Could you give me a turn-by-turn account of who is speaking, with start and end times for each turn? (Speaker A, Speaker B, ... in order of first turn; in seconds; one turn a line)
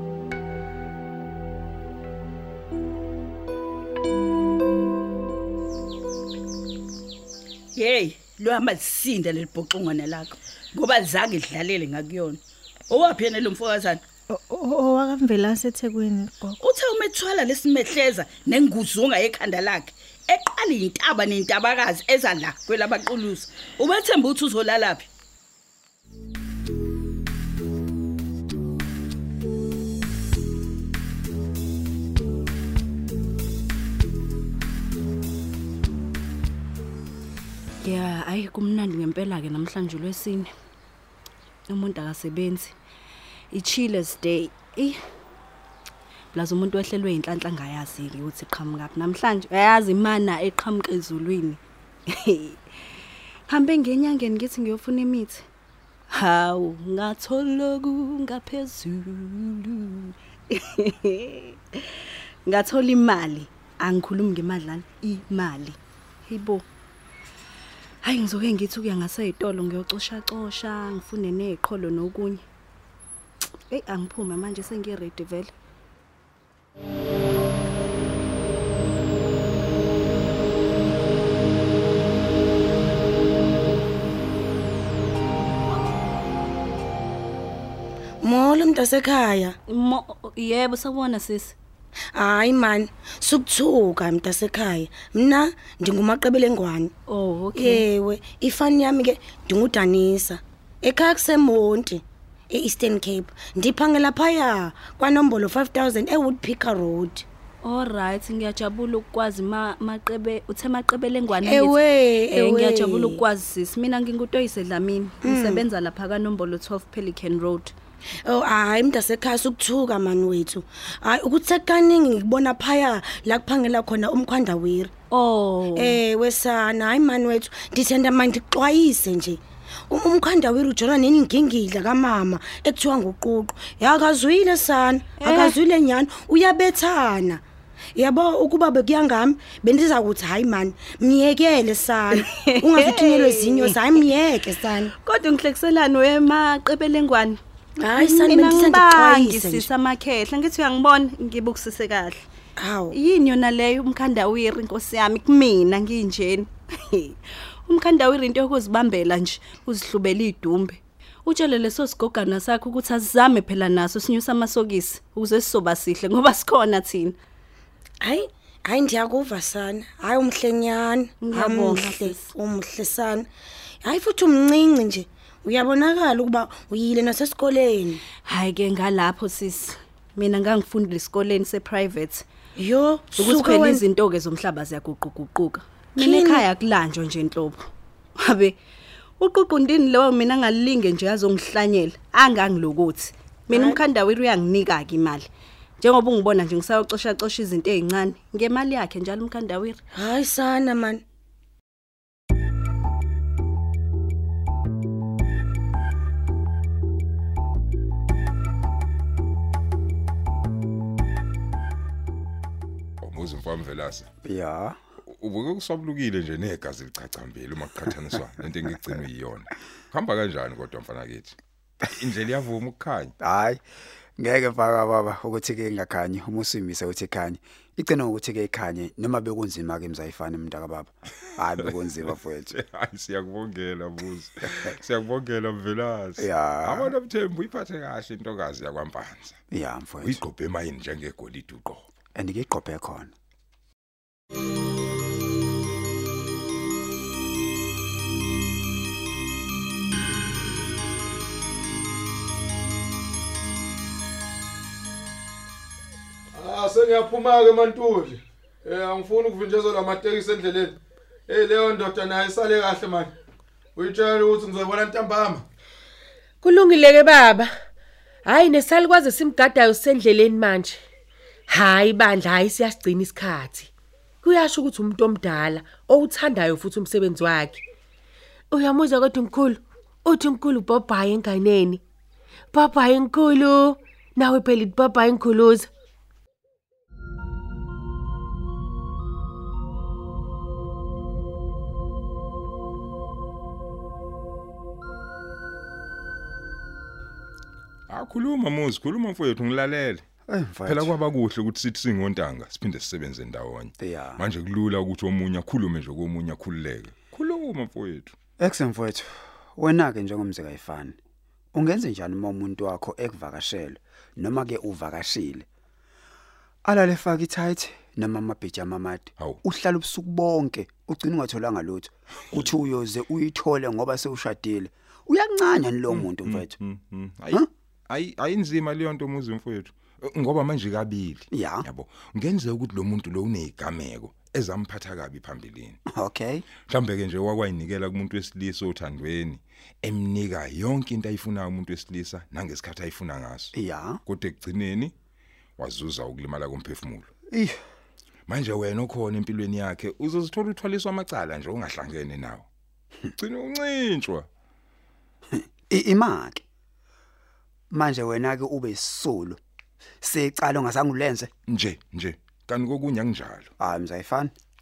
Speaker A: 7.7-14.0
Speaker B: 14.3-16.6
Speaker A: 16.6-25.1
Speaker C: 37.8-40.5
Speaker C: 41.7-42.7
Speaker C: 43.5-45.0
Speaker C: 46.3-52.6
Speaker C: 53.5-55.4
Speaker C: 56.1-61.8
Speaker C: 62.5-66.7
Speaker C: 68.0-72.4
Speaker C: 73.7-75.5
Speaker D: 88.2-89.5
Speaker C: 89.7-91.5
Speaker D: 92.1-96.9
Speaker C: 97.1-97.9
Speaker D: 97.5-107.2
Speaker C: 107.6-117.7
Speaker D: 111.4-113.2
Speaker D: 115.2-115.6
Speaker D: 118.2-124.9
Speaker C: 125.1-126.0
Speaker D: 125.8-137.4
Speaker C: 135.2-135.6
Speaker D: 137.9-144.9
Speaker C: 142.1-143.9
Speaker C: 144.9-147.4
Speaker D: 147.8-149.7
Speaker C: 147.9-152.2
Speaker D: 152.6-152.9
Speaker C: 152.9-167.2
Speaker D: 168.0-173.3
Speaker C: 171.2-172.3
Speaker D: 173.8-178.0
Speaker C: 178.2-182.2
Speaker D: 182.6-183.8
Speaker C: 183.2-187.7
Speaker D: 186.0-186.4
Speaker C: 188.2-188.6
Speaker C: 189.2-195.3
Speaker D: 193.5-193.8
Speaker C: 195.8-199.8
Speaker D: 199.9-201.0
Speaker E: 213.0-214.1
Speaker F: 214.2-214.8
Speaker E: 215.1-223.1
Speaker F: 223.2-223.6
Speaker F: 224.2-232.5
Speaker E: 231.6-239.4
Speaker F: 236.2-236.9
Speaker F: 239.5-240.2
Speaker E: 240.0-241.9
Speaker F: 242.1-243.1
Speaker G: 256.3-260.7
Speaker G: 261.3-263.1
Speaker G: 263.8-265.4
Speaker H: 266.4-267.5
Speaker H: 268.2-270.8
Speaker H: 271.5-273.7
Speaker H: 274.2-277.6
Speaker H: 278.5-281.8
Speaker H: 282.5-285.7
Speaker E: 297.9-300.0
Speaker F: 300.3-300.9
Speaker E: 300.6-308.1
Speaker F: 303.8-304.2
Speaker F: 308.4-311.0
Speaker F: 311.5-315.4
Speaker F: 316.6-326.5
Speaker E: 325.9-335.8
Speaker F: 331.3-331.6
Speaker F: 335.9-336.4
Speaker E: 336.7-343.5
Speaker F: 343.5-344.0
Speaker E: 344.1-344.9
Speaker E: 345.6-347.1
Speaker E: 348.3-352.4
Speaker E: 353.2-354.3
Speaker F: 355.3-356.4
Speaker F: 357.7-359.4
Speaker F: 360.0-361.3
Speaker E: 361.5-363.5
Speaker F: 363.6-364.3